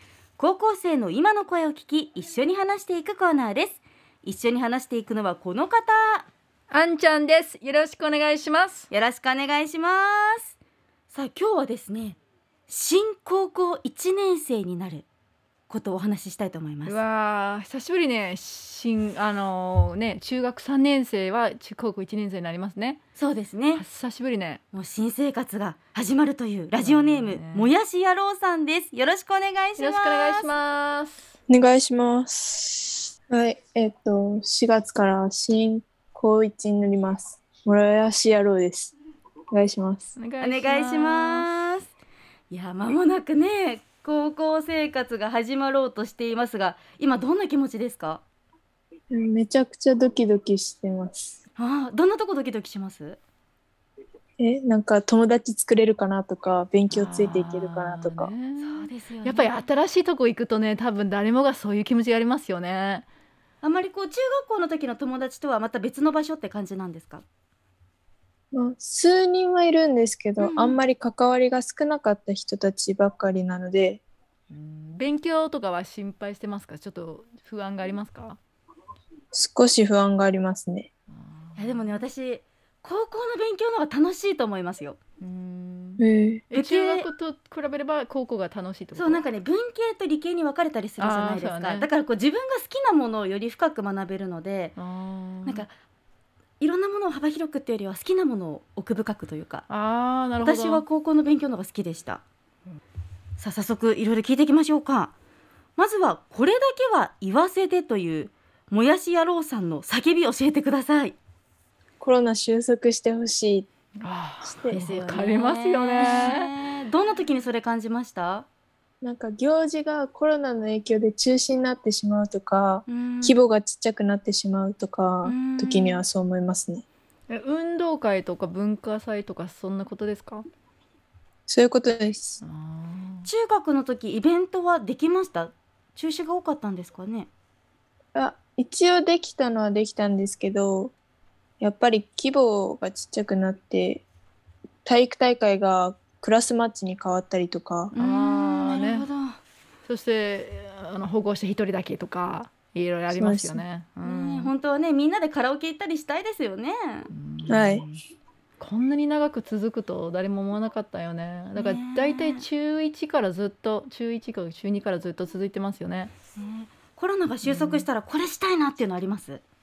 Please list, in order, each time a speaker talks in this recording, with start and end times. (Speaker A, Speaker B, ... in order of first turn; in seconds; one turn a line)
Speaker A: 0.4-6.3
Speaker B: 6.7-8.9
Speaker A: 8.9-10.5
Speaker A: 11.1-12.2
Speaker A: 12.7-15.0
Speaker A: 15.7-17.0
Speaker B: 16.9-23.0
Speaker A: 23.1-23.8
Speaker B: 23.7-24.6
Speaker A: 24.7-30.5
Speaker B: 26.8-27.7
Speaker B: 29.8-31.3
Speaker C: 31.5-38.9
Speaker C: 39.5-40.1
Speaker B: 40.1-41.5
Speaker A: 40.4-41.9
Speaker A: 42.5-48.2
Speaker C: 49.1-51.4
Speaker A: 51.6-53.2
Speaker C: 54.4-58.3
Speaker B: 56.9-63.1
Speaker A: 58.6-59.5
Speaker A: 63.6-67.2
Speaker C: 68.5-74.0
Speaker A: 70.4-70.8
Speaker B: 74.5-78.4
Speaker C: 79.3-80.9
Speaker B: 81.1-82.0
Speaker A: 81.5-85.0
Speaker B: 85.2-89.2
Speaker C: 86.0-86.4
Speaker A: 86.5-87.1
Speaker A: 88.9-94.8
Speaker B: 91.0-91.9
Speaker B: 94.8-95.6
Speaker A: 96.6-99.7
Speaker B: 99.7-100.8
Speaker A: 100.4-102.2
Speaker A: 103.4-105.1
Speaker A: 105.8-111.2
Speaker C: 112.0-113.7
Speaker B: 114.0-116.5
Speaker C: 114.4-114.8
Speaker A: 114.7-118.5
Speaker C: 119.0-126.8
Speaker A: 122.9-123.4
Speaker A: 125.2-126.0
Speaker B: 127.3-130.4
Speaker C: 131.5-132.4
Speaker B: 132.4-133.3
Speaker A: 133.2-137.3
Speaker C: 138.1-140.9
Speaker C: 141.6-144.0
Speaker C: 144.8-147.9
Speaker A: 147.9-149.4
Speaker B: 148.0-149.1
Speaker B: 149.8-154.5
Speaker C: 153.1-153.6
Speaker A: 154.0-157.1
Speaker B: 157.1-158.0
Speaker C: 157.5-157.8
Speaker B: 158.6-166.1
Speaker A: 161.6-162.4
Speaker A: 166.4-169.4
Speaker B: 167.4-167.9